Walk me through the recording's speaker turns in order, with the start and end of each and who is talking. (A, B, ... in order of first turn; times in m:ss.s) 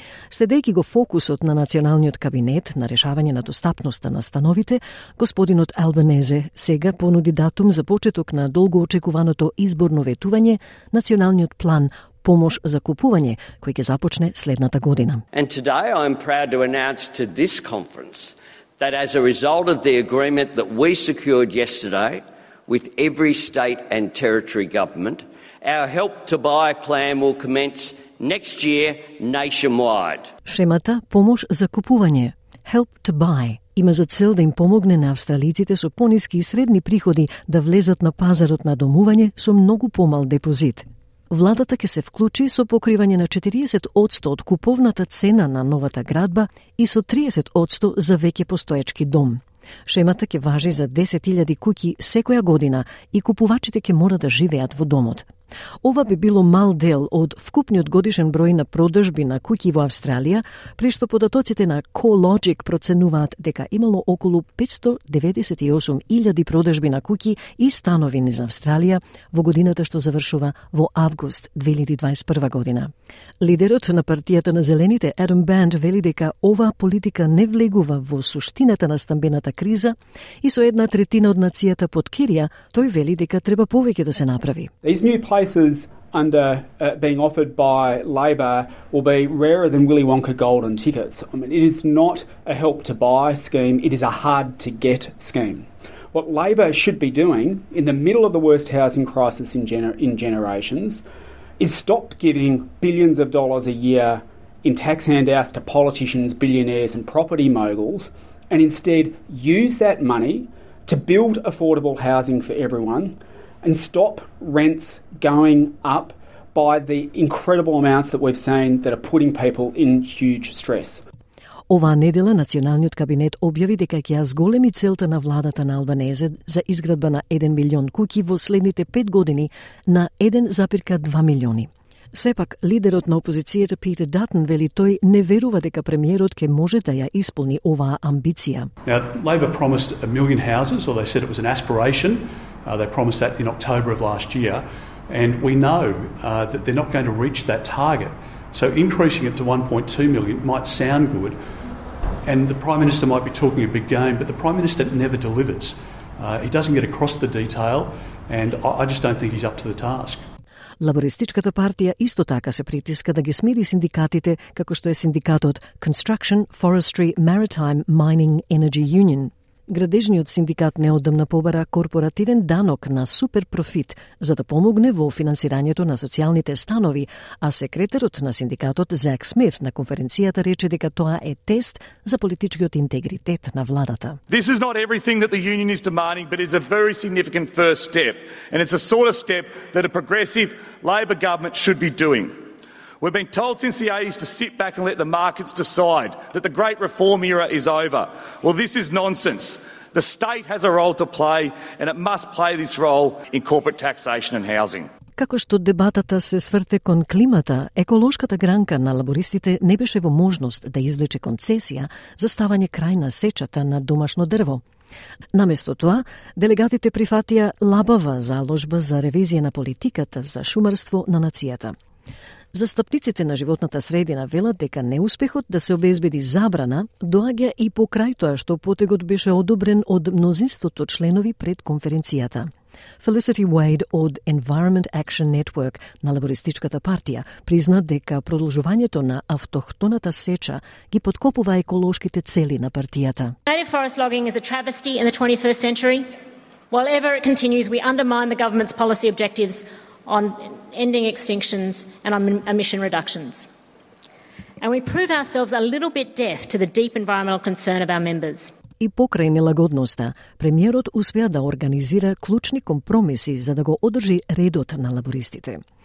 0:00.3-0:15.2 A
0:15.3-0:30.3 B
0:30.5-0:55.3 A
0:55.8-1:24.7 A
1:24.8-1:41.0 C
1:41.6-2:01.0 C
2:01.7-2:18.7 A
2:18.9-2:31.4 D
2:32.2-2:40.2 D
2:40.8-3:04.2 A
3:04.3-3:12.4 E
3:13.0-3:24.9 E
3:25.2-3:34.6 A
3:35.3-3:41.8 A
3:42.5-3:52.5 A
3:53.0-4:03.4 A
4:03.5-4:06.1 F
4:06.7-4:13.5 F
4:14.6-4:18.6 F
4:18.8-4:25.6 A